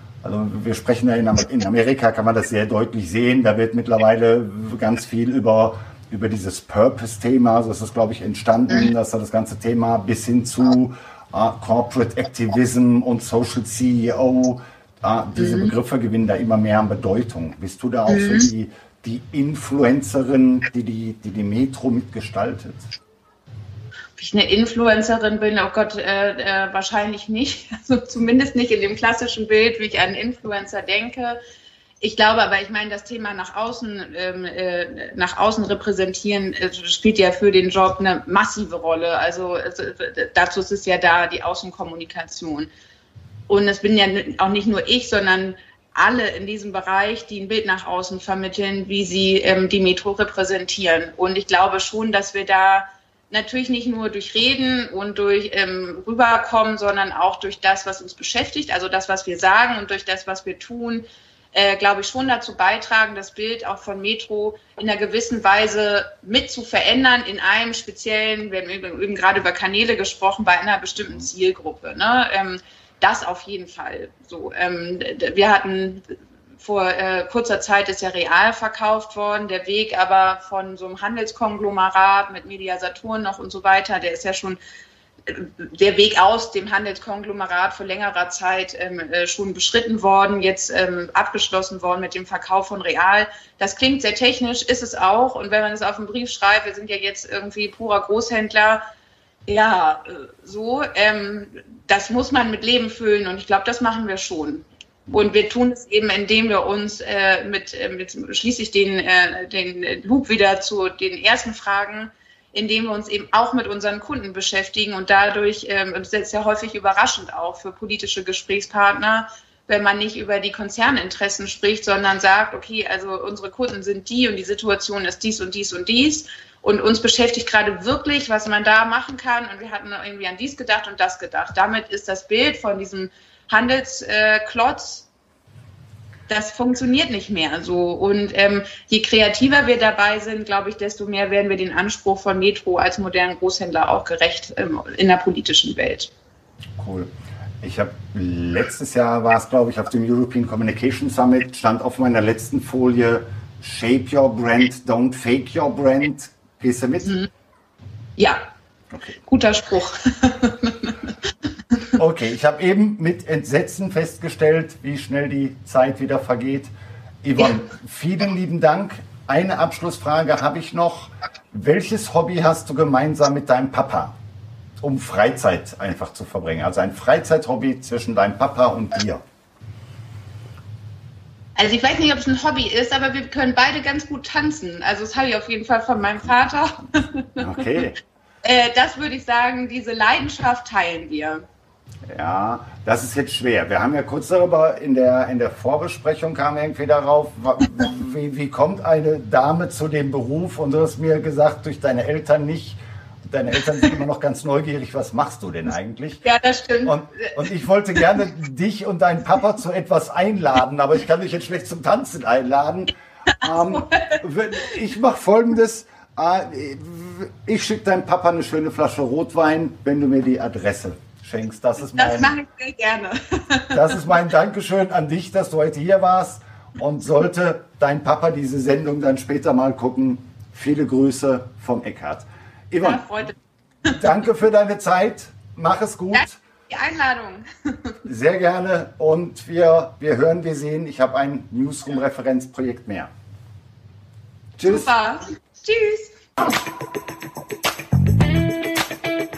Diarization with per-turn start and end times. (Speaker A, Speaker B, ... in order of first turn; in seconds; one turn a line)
Speaker A: 0.2-22.9
Speaker B: 15.3-15.7
Speaker B: 18.1-18.5
Speaker B: 24.2-31.4
Speaker B: 32.0-42.7
Speaker B: 43.5-84.6
Speaker B: 85.3-98.8
Speaker B: 99.5-135.1
Speaker B: 136.3-146.1
Speaker A: 146.8-147.1
Speaker A: 147.6-157.2
Speaker B: 158.2-158.5
Speaker A: 158.9-159.2
Speaker B: 159.2-160.9
Speaker A: 161.9-166.7
Speaker A: 167.2-174.1
Speaker A: 174.8-179.2
Speaker B: 181.6-187.6
Speaker A: 186.0-186.3
Speaker A: 187.4-188.0
Speaker B: 188.4-191.4
Speaker A: 192.1-206.2
Speaker B: 206.2-207.3
Speaker A: 206.8-222.3
Speaker B: 213.5-214.2
Speaker B: 221.9-224.0
Speaker A: 223.7-233.1
Speaker B: 232.8-233.3
Speaker A: 233.9-236.4
Speaker B: 236.1-237.9
Speaker A: 238.1-243.1
Speaker A: 244.6-244.9
Speaker B: 244.6-246.1